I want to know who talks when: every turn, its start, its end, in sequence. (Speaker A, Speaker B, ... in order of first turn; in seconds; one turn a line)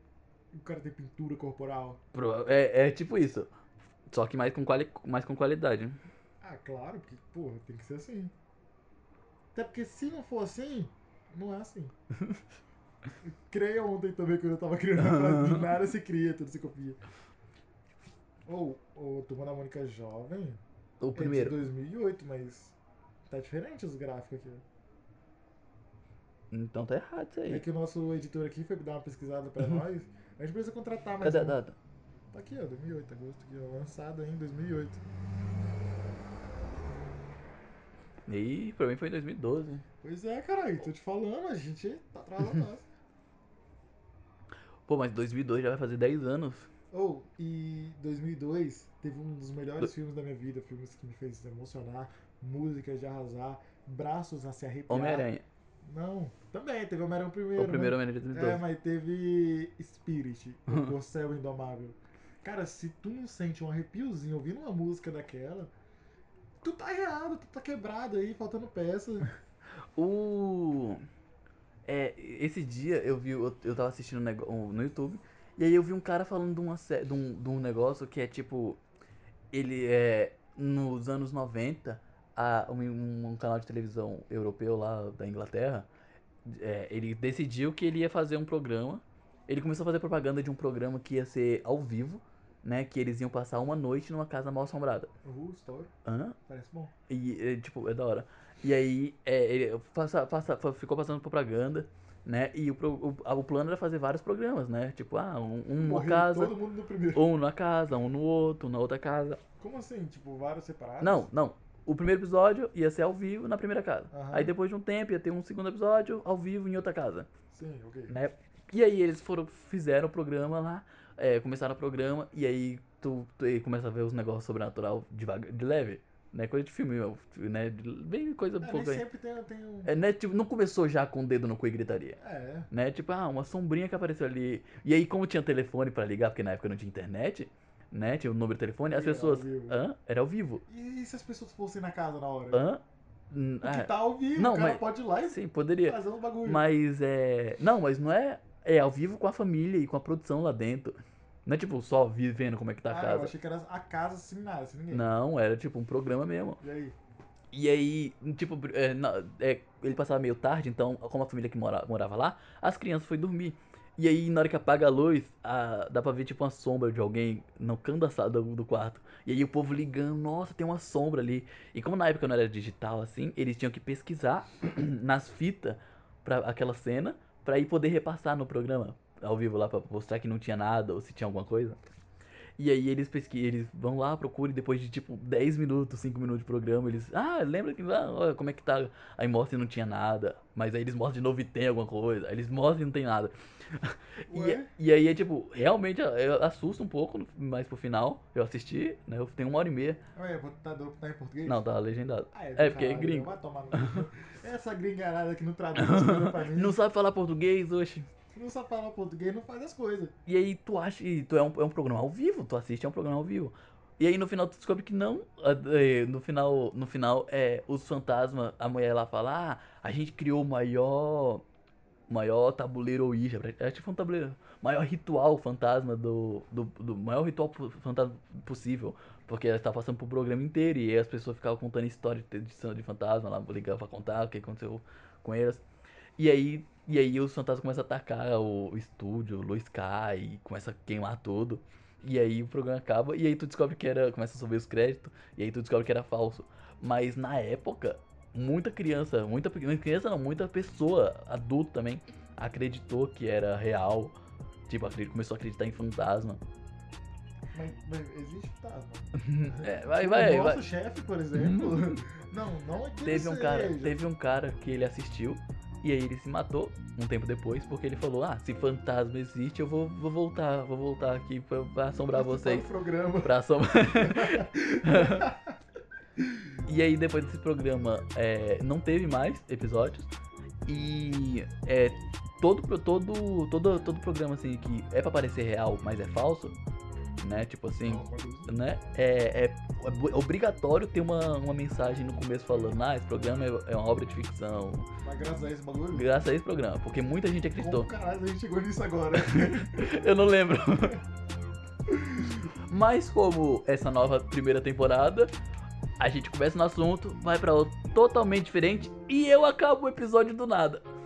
Speaker A: 0.5-2.0
Speaker B: 2.1-3.5
Speaker B: 4.1-6.0
Speaker A: 6.4-8.3
Speaker A: 9.5-11.9
Speaker A: 13.2-17.0
Speaker B: 15.0-15.6
Speaker A: 18.5-20.6
Speaker B: 21.0-21.6
Speaker A: 21.1-22.8
Speaker A: 23.3-24.6
Speaker B: 26.5-27.6
Speaker A: 27.5-31.6
Speaker B: 31.2-31.8
Speaker A: 32.3-35.0
Speaker B: 38.3-39.9
Speaker A: 40.0-42.9
Speaker B: 44.9-46.7
Speaker A: 46.9-55.3
Speaker B: 54.9-55.4
Speaker A: 55.8-65.7
Speaker B: 57.6-58.6
Speaker B: 60.7-60.9
Speaker A: 66.6-69.3
Speaker B: 70.0-71.0
Speaker B: 71.9-78.8
Speaker B: 79.5-85.9
Speaker B: 86.5-95.1
Speaker A: 95.2-95.9
Speaker B: 96.0-96.4
Speaker A: 96.5-96.9
Speaker B: 97.1-106.5
Speaker A: 105.8-107.2
Speaker B: 107.1-109.4
Speaker A: 109.6-111.3
Speaker B: 111.0-117.3
Speaker A: 114.1-114.5
Speaker A: 117.5-118.1
Speaker B: 118.1-129.0
Speaker A: 128.6-129.9
Speaker B: 129.8-132.2
Speaker A: 132.2-132.7
Speaker B: 132.7-140.6
Speaker A: 138.9-139.8
Speaker A: 140.7-142.7
Speaker B: 142.5-153.3
Speaker A: 143.6-146.6
Speaker A: 152.9-155.1
Speaker B: 154.9-156.6
Speaker A: 156.6-157.0
Speaker B: 157.5-181.8
Speaker B: 182.6-200.0
Speaker A: 194.3-194.7
Speaker A: 200.1-201.6
Speaker B: 201.5-204.1
Speaker A: 202.3-206.8
Speaker B: 205.8-208.1
Speaker A: 208.3-210.1
Speaker B: 210.3-221.4
Speaker B: 222.1-235.6
Speaker B: 236.2-254.1
Speaker B: 254.7-256.4
Speaker A: 257.5-264.0
Speaker B: 259.1-260.6
Speaker B: 261.4-262.0
Speaker B: 263.0-272.7
Speaker A: 272.1-273.3
Speaker B: 273.2-275.3
Speaker A: 273.9-275.6
Speaker A: 276.2-276.5
Speaker B: 276.6-280.1
Speaker B: 280.6-286.6
Speaker B: 287.2-294.9
Speaker A: 287.9-288.5
Speaker A: 295.0-296.1
Speaker B: 295.9-297.9
Speaker A: 297.6-300.0
Speaker B: 299.1-301.0
Speaker A: 301.9-302.5
Speaker B: 302.7-305.3
Speaker B: 306.0-310.8